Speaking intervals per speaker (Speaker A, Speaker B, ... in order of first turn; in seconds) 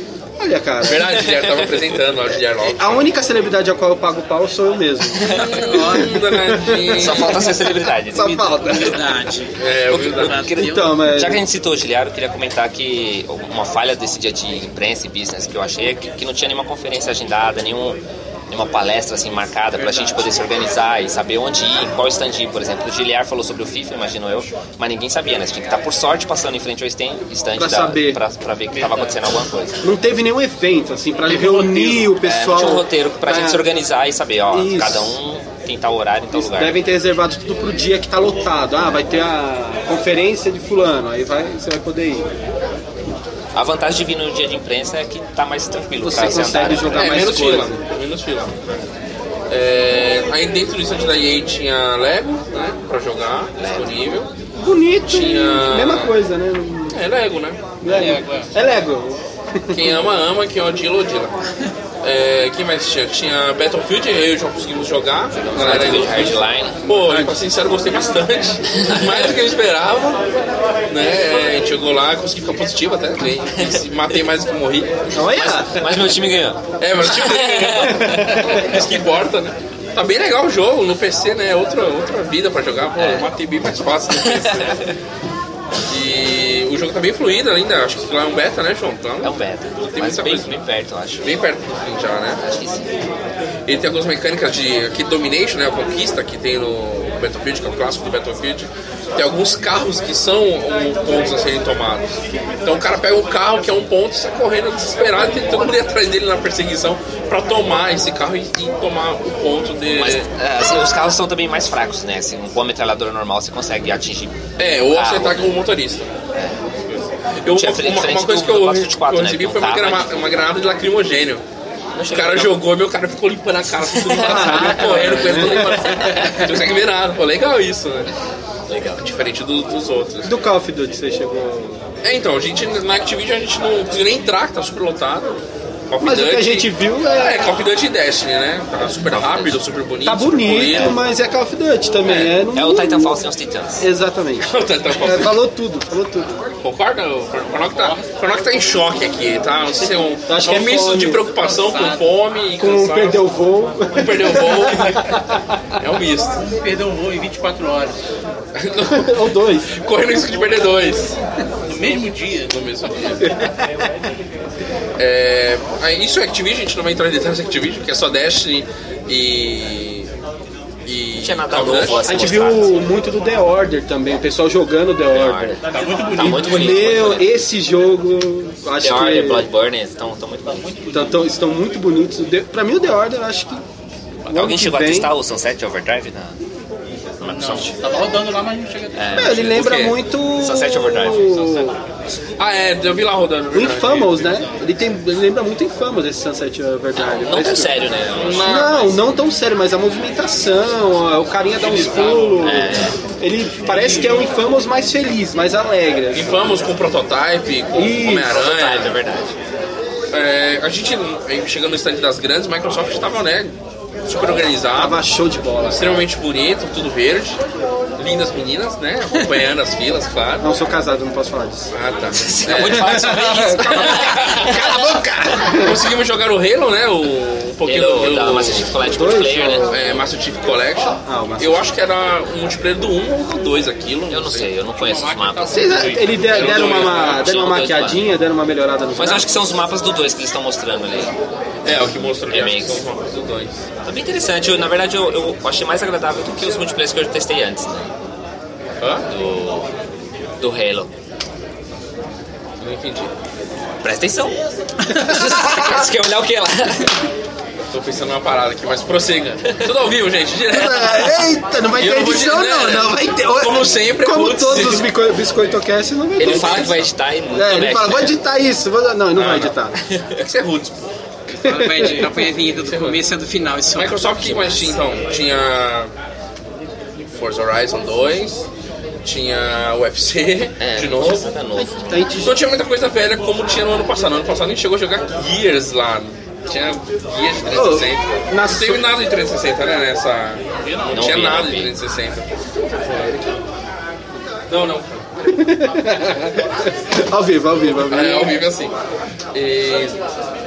Speaker A: 0.4-1.2, 2.6-9.1, 10.6-11.4, 27.6-28.2, 29.8-33.7, 34.5-35.2, 36.3-42.3, 46.0-47.8, 54.5-57.0, 57.8-60.0, 66.9-67.4, 75.1-76.0, 78.0-78.6, 124.2-126.4, 130.2-131.8, 136.0-137.5, 140.0-143.2, 143.8-146.5, 150.3-151.2, 152.6-155.4, 158.9-159.7, 172.0-175.6, 176.2-179.5, 180.9-183.6, 184.3-185.1, 189.1-191.8, 193.5-197.8, 198.4-206.6, 207.7-208.4, 214.7-216.1, 220.4-221.7, 222.5-225.8, 228.9-229.8, 231.1-231.7, 235.5-239.4, 255.1-255.6, 260.5-266.7, 267.3-269.8, 271.4-272.1, 281.6-282.4, 287.5-288.9, 295.3-298.4
Speaker B: 0.8-3.1, 5.3-7.5, 9.6-10.4, 46.9-48.6, 49.5-54.3, 55.1-56.1, 56.9-57.6, 59.7-61.4, 62.0-70.2, 70.9-75.1, 76.8-84.8, 85.9-90.5, 91.2-92.4, 93.7-110.2, 114.6-116.1, 116.9-121.4, 122.1-128.1, 129.0-130.3, 132.0-141.0, 144.4-145.4, 146.6-153.3, 153.9-155.2, 155.8-156.4, 158.6-159.2, 159.7-161.2, 162.5-163.2, 165.0-170.1, 170.9-172.1, 189.4-190.0, 192.4-194.4, 198.1-199.0, 206.1-209.0, 210.1-213.6, 214.1-215.0, 215.6-217.4, 218.0-220.5, 221.7-224.7, 225.5-228.7, 229.7-234.5, 236.2-237.4, 241.6-243.7, 248.8-249.1, 252.6-253.1, 257.7-264.9, 266.2-266.9, 269.2-269.5, 270.2-270.9, 272.6-273.0, 273.8-275.9, 277.1-278.5, 279.0-281.3, 282.2-293.4, 294.5-295.0, 297.8-298.7, 299.3-300.0
Speaker C: 1.2-1.8, 5.2-5.8, 6.9-9.0, 9.9-29.8, 32.1-36.8, 43.5-47.2, 53.6-54.0, 65.3-66.9, 75.3-78.6, 83.0-83.3, 84.2-84.9, 89.2-91.3, 92.4-92.9, 109.9-115.5, 116.3-116.6, 117.5-120.2, 122.0-122.6, 123.8-126.5, 128.7-129.0, 138.9-139.6, 142.0-143.8, 171.2-172.9, 175.1-177.3, 178.8-180.8, 184.3-186.4, 187.2-187.8, 188.9-191.7, 197.0-198.7, 202.4-203.0, 208.3-209.3, 222.2-225.0, 227.7-229.9, 234.1-238.1, 239.0-241.1, 241.7-242.8, 243.8-247.9, 249.1-249.7, 250.4-250.9, 253.8-257.0, 266.2-268.1, 269.8-270.2, 280.6-281.8, 290.9-291.7
Speaker D: 5.3-6.2, 8.2-9.6, 10.1-11.0, 19.8-20.2, 271.4-274.5
Speaker E: 28.7-29.2, 31.3-32.1, 57.9-58.5, 147.7-148.1, 151.3-152.1, 156.4-158.0, 161.7-162.8, 175.7-177.1, 180.5-181.2, 187.3-189.3, 201.6-202.5, 203.6-204.3, 234.7-236.5, 290.6-291.1